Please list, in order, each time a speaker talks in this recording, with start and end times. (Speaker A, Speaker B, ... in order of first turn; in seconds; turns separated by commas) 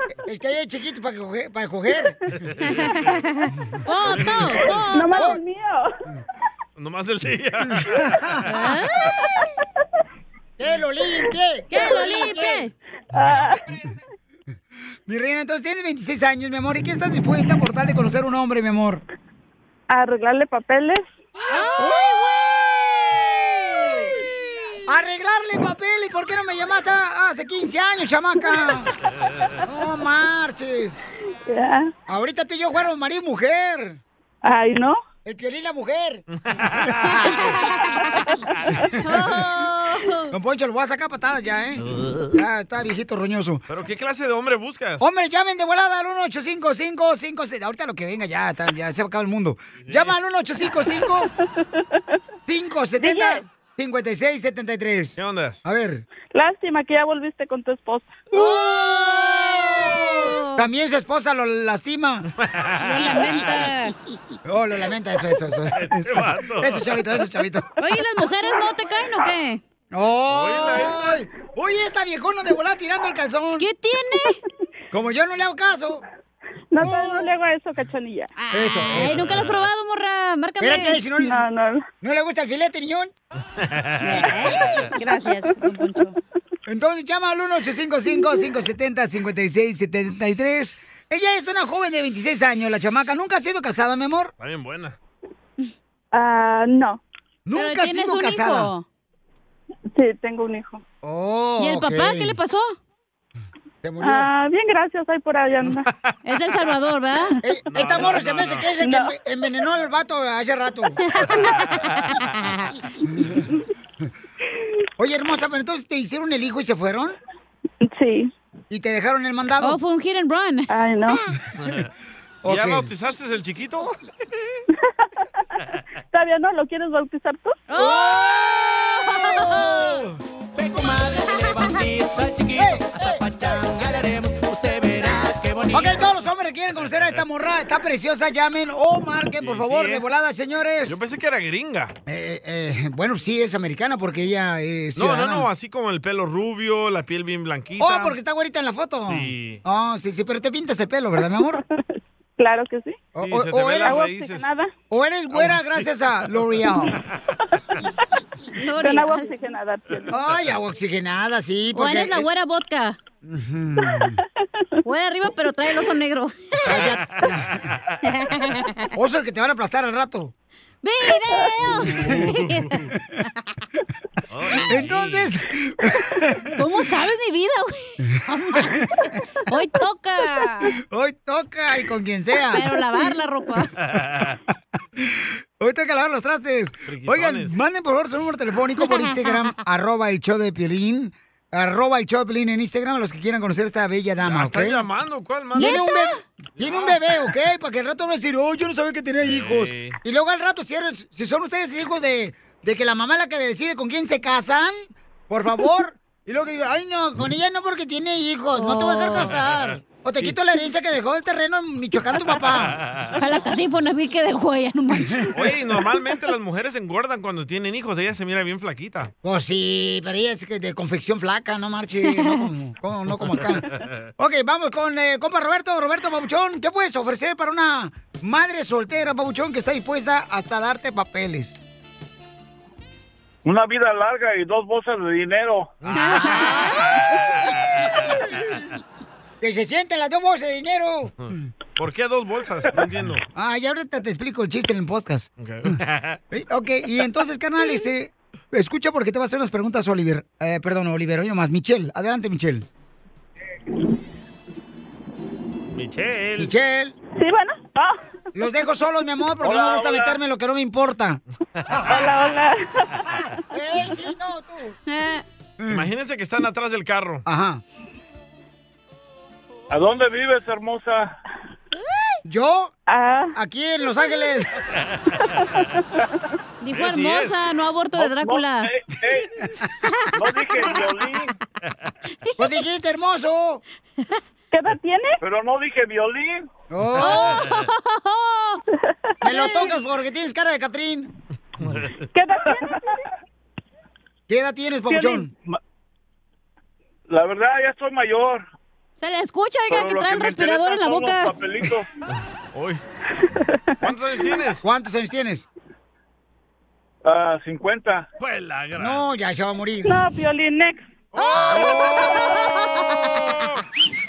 Speaker A: 0.2-2.2, Speaker B: 2.3-3.2, Speaker C: 2.7-5.3, Speaker B: 4.1-4.8, Speaker D: 4.9-5.9, Speaker B: 6.8-8.4, Speaker A: 7.8-8.3, Speaker C: 8.4-9.1, Speaker A: 10.6-12.6, Speaker C: 11.7-12.7, Speaker D: 13.1-13.6, Speaker A: 15.1-19.0, Speaker D: 19.9-21.1, Speaker C: 21.5-24.1, Speaker A: 24.9-28.9, Speaker A: 29.6-31.0, Speaker D: 31.5-31.9, Speaker A: 32.1-34.0, Speaker D: 34.4-35.0, Speaker A: 35.2-36.2, Speaker B: 36.5-37.1, Speaker A: 36.9-37.6, Speaker C: 37.1-38.2, Speaker D: 38.2-38.5, Speaker C: 39.0-40.3, Speaker A: 40.3-43.6, Speaker B: 41.9-42.3, Speaker B: 43.7-45.1, Speaker A: 45.0-51.3, Speaker B: 49.8-50.1, Speaker D: 51.6-52.2, Speaker A: 52.5-56.0, Speaker D: 53.0-53.4, Speaker B: 55.2-55.6, Speaker D: 56.3-58.2, Speaker C: 58.3-60.6, Speaker A: 58.3-62.3, Speaker B: 62.4-63.1, Speaker C: 62.8-63.9, Speaker A: 64.5-67.7, Speaker B: 65.7-66.8, Speaker C: 67.8-69.6, Speaker A: 69.9-73.7, Speaker B: 70.3-71.2, Speaker C: 73.6-74.4, Speaker A: 74.9-76.0, Speaker D: 76.7-78.3, Speaker A: 76.8-77.2, Speaker C: 78.3-81.0, Speaker A: 78.5-79.3, Speaker A: 80.6-81.4, Speaker D: 81.2-81.8, Speaker A: 82.0-83.1, Speaker B: 83.7-84.0, Speaker C: 84.0-86.2, Speaker A: 86.7-94.3, Speaker B: 94.4-95.0, Speaker D: 96.1-97.0, Speaker A: 97.5-98.7, Speaker C: 97.5-98.8, Speaker D: 100.0-100.8, Speaker A: 101.0-102.4, Speaker C: 101.6-102.8, Speaker A: 103.8-104.3, Speaker D: 104.0-105.9, Speaker C: 106.2-107.4, Speaker A: 107.4-111.0, Speaker B: 107.7-108.7, Speaker D: 108.8-109.1, Speaker C: 111.0-112.9, Speaker B: 111.5-111.8, Speaker A: 113.0-113.5, Speaker A: 115.0-117.2, Speaker D: 117.9-118.3, Speaker A: 118.7-119.8, Speaker C: 119.6-121.2, Speaker D: 120.7-121.2, Speaker B: 121.6-121.9, Speaker A: 122.4-122.9, Speaker B: 122.5-124.0, Speaker D: 124.8-125.1, Speaker D: 126.1-127.6, Speaker C: 127.7-130.0, Speaker A: 129.2-130.1, Speaker E: 130.6-135.9, Speaker C: 130.9-131.8, Speaker A: 132.7-133.2, Speaker A: 135.7-141.0, Speaker B: 139.4-140.0, Speaker B: 140.8-141.9, Speaker A: 142.1-145.5, Speaker B: 144.9-148.2, Speaker A: 147.8-151.6, Speaker B: 149.1-149.6, Speaker D: 152.4-153.0, Speaker A: 153.1-154.0, Speaker B: 153.2-154.5, Speaker D: 153.8-154.7, Speaker A: 154.9-157.0, Speaker B: 155.3-156.7, Speaker C: 158.6-159.3, Speaker D: 158.8-160.1, Speaker A: 160.1-162.3, Speaker C: 161.7-163.0, Speaker A: 163.2-164.2, Speaker D: 163.9-164.2, Speaker C: 164.8-166.8, Speaker A: 166.6-167.5, Speaker B: 167.2-167.9, Speaker C: 168.1-168.9, Speaker A: 168.9-170.3, Speaker C: 170.8-172.7, Speaker A: 171.8-172.3, Speaker B: 172.0-172.9, Speaker B: 174.3-175.3, Speaker A: 174.6-176.6, Speaker C: 176.6-180.7, Speaker A: 178.6-178.8, Speaker A: 180.9-182.8, Speaker C: 182.5-183.7, Speaker B: 183.8-184.4, Speaker A: 185.0-194.8, Speaker B: 186.9-187.5, Speaker C: 188.8-189.5, Speaker B: 194.2-195.7, Speaker A: 195.5-212.8, Speaker C: 195.6-196.2, Speaker B: 196.6-197.0, Speaker B: 199.2-200.0, Speaker C: 208.6-209.4, Speaker B: 209.3-209.6, Speaker C: 213.2-215.3, Speaker A: 215.0-215.3, Speaker B: 215.3-219.1, Speaker A: 219.2-223.7, Speaker C: 222.2-222.4, Speaker A: 224.2-231.6, Speaker E: 233.4-235.7, Speaker B: 235.8-238.1, Speaker A: 235.9-236.9, Speaker C: 235.9-237.0, Speaker A: 239.4-241.1, Speaker B: 241.2-243.2, Speaker A: 243.3-245.8, Speaker B: 245.4-246.2, Speaker A: 246.3-252.7, Speaker B: 255.7-256.5, Speaker A: 256.4-256.9, Speaker D: 257.2-258.0, Speaker A: 258.3-261.2, Speaker E: 259.4-260.2, Speaker D: 261.9-263.3, Speaker A: 263.5-264.7, Speaker C: 264.9-265.2, Speaker A: 265.6-265.9, Speaker B: 265.7-267.2, Speaker A: 267.2-267.6, Speaker E: 269.7-271.1, Speaker A: 272.2-272.7, Speaker D: 272.9-273.4, Speaker A: 273.3-274.5, Speaker D: 275.4-275.8, Speaker C: 276.6-278.7, Speaker B: 276.7-277.4, Speaker E: 277.9-279.3, Speaker E: 280.1-281.3, Speaker A: 282.4-283.6, Speaker D: 284.5-285.2, Speaker E: 285.2-286.4, Speaker A: 286.7-287.4, Speaker C: 287.0-288.6, Speaker A: 289.2-291.1, Speaker C: 289.3-289.6, Speaker B: 291.6-291.9, Speaker D: 292.1-292.9, Speaker A: 294.3-295.3, Speaker D: 294.9-295.3, Speaker E: 297.1-298.4, Speaker C: 299.0-301.4, Speaker E: 299.7-301.9, Speaker B: 302.5-302.8, Speaker B: 303.8-304.6, Speaker A: 304.6-305.4, Speaker E: 307.0-308.1, Speaker B: 308.2-309.1, Speaker A: 308.8-309.9, Speaker D: 309.8-310.9, Speaker C: 311.1-313.5, Speaker B: 311.2-312.0, Speaker B: 313.3-313.6